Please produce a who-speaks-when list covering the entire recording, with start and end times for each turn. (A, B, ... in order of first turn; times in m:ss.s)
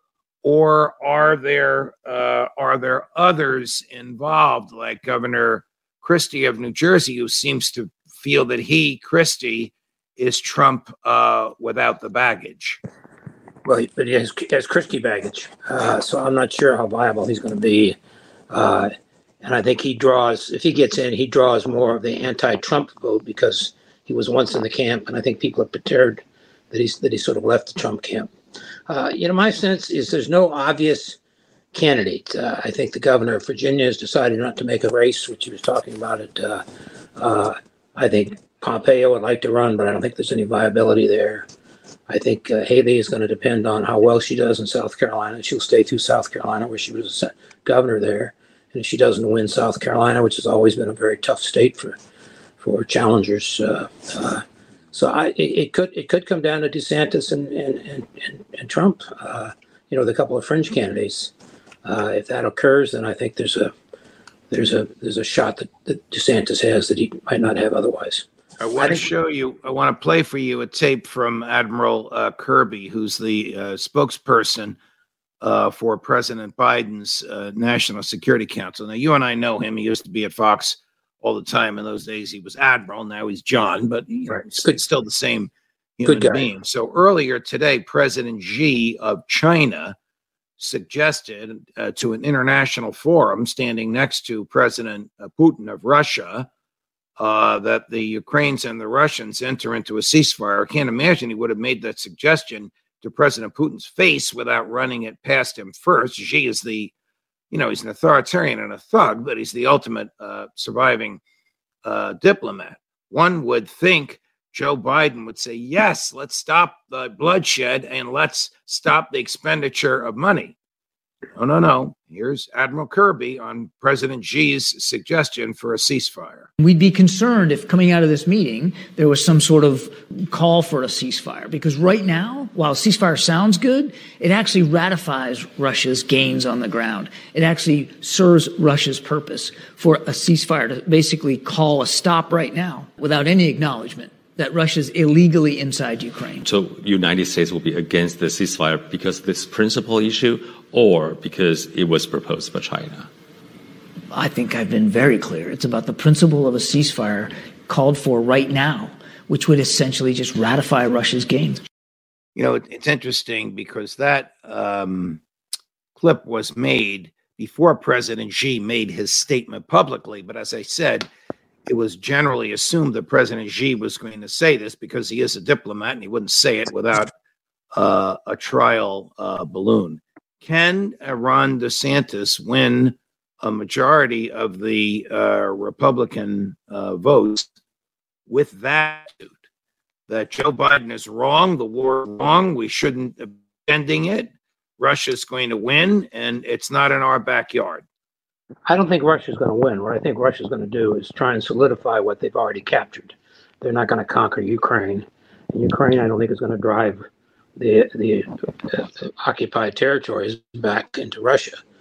0:00.4-0:12.8 A
0:13.6-0:18.0 B
0:18.5-0:18.9 B
0:19.4-0:28.3 B
0:28.9-0:31.2 B
0:31.7-0:36.6 B
0:37.2-0:41.4 B
0:42.1-0:51.9 B
0:52.6-1:01.3 B
1:01.8-1:03.7 B
1:04.5-1:08.2 B
1:08.6-1:14.8 A
1:08.8-1:09.1 B
1:15.4-1:29.9 A
1:26.0-1:26.4 B
1:30.6-1:36.5 A
1:37.2-1:46.9 A
1:47.5-1:51.2 A
1:51.8-2:00.6 A
2:01.4-2:06.5 A
2:06.6-2:26.5 C
2:26.5-2:33.1 D
2:34.1-2:41.6 C
2:42.4-2:45.2 A
2:46.0-2:51.1 A
2:51.7-2:57.1 A
2:57.7-3:07.5 A
3:08.3-3:09.4 A
3:10.1-3:17.8 A
3:18.6-3:27.0 B
3:27.6-3:31.6 B